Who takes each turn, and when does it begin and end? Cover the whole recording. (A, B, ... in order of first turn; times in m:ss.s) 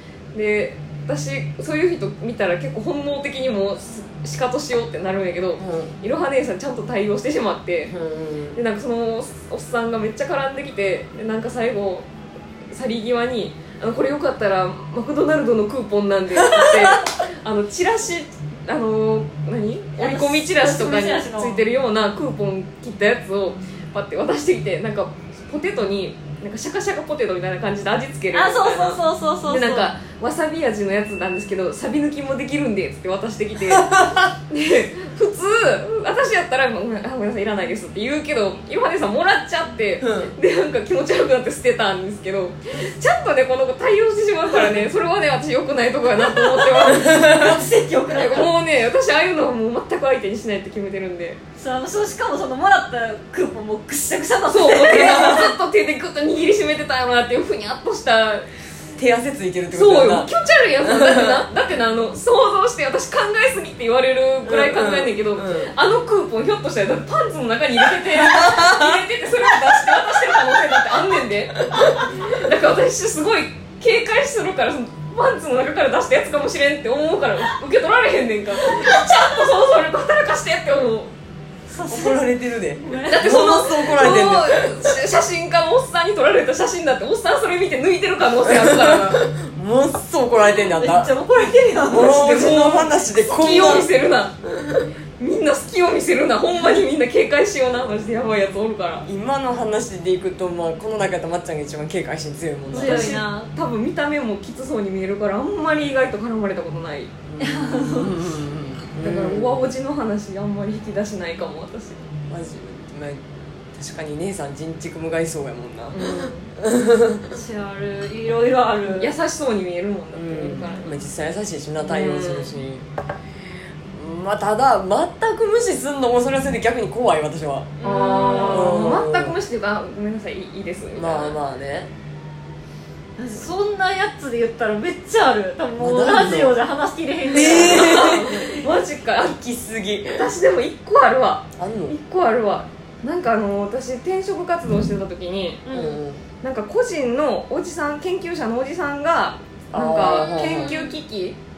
0:00.3-0:07.9 A
0:05.6-0:05.9 B
0:07.9-0:08.6 B
0:08.5-0:12.1 A
0:12.7-0:33.9 A
0:16.4-0:16.9 B
0:20.0-0:21.6 C
0:28.3-0:29.9 C
0:33.7-0:34.3 B
0:34.5-0:47.5 A
0:40.0-0:40.3 B
0:46.8-0:47.6 B
0:46.8-0:48.5 C
0:48.1-0:51.4 A
0:51.6-0:55.5 C
0:54.5-0:58.5 A
0:54.9-0:55.5 B
0:59.0-1:00.3 B
0:59.7-1:21.1 A
1:00.8-1:01.4 B
1:04.4-1:05.7 B
1:08.0-1:09.0 B
1:11.7-1:12.2 B
1:21.7-1:23.5 C
1:21.9-1:25.0 B
1:23.0-1:29.2 A
1:28.4-1:31.1 B
1:30.4-1:32.2 C
1:31.9-1:33.9 B
1:31.9-1:34.4 A
1:35.2-1:39.0 A
1:39.0-1:43.2 B
1:42.7-1:43.5 C
1:42.7-1:47.1 A
1:47.3-1:49.6 B
1:47.4-1:48.2 C
1:49.0-1:52.0 A
1:52.3-1:57.4 B
1:55.9-1:56.5 A
1:57.3-1:59.1 C
1:58.8-2:00.9 A
2:00.1-2:02.8 B
2:01.8-2:02.6 A
2:03.9-2:07.8 B
2:07.8-2:08.9 C
2:07.8-2:11.4 A
2:08.4-2:09.4 B
2:10.9-2:11.9 B
2:13.2-2:18.2 C
2:15.8-2:16.6 B
2:17.3-2:19.4 A
2:17.3-2:18.6 B
2:19.2-2:20.3 B
2:20.1-2:25.6 A
2:21.6-2:22.0 B
2:25.6-2:26.0 C
2:25.7-2:26.2 B
2:26.4-2:31.4 A
2:29.7-2:30.7 B
2:30.1-2:30.9 C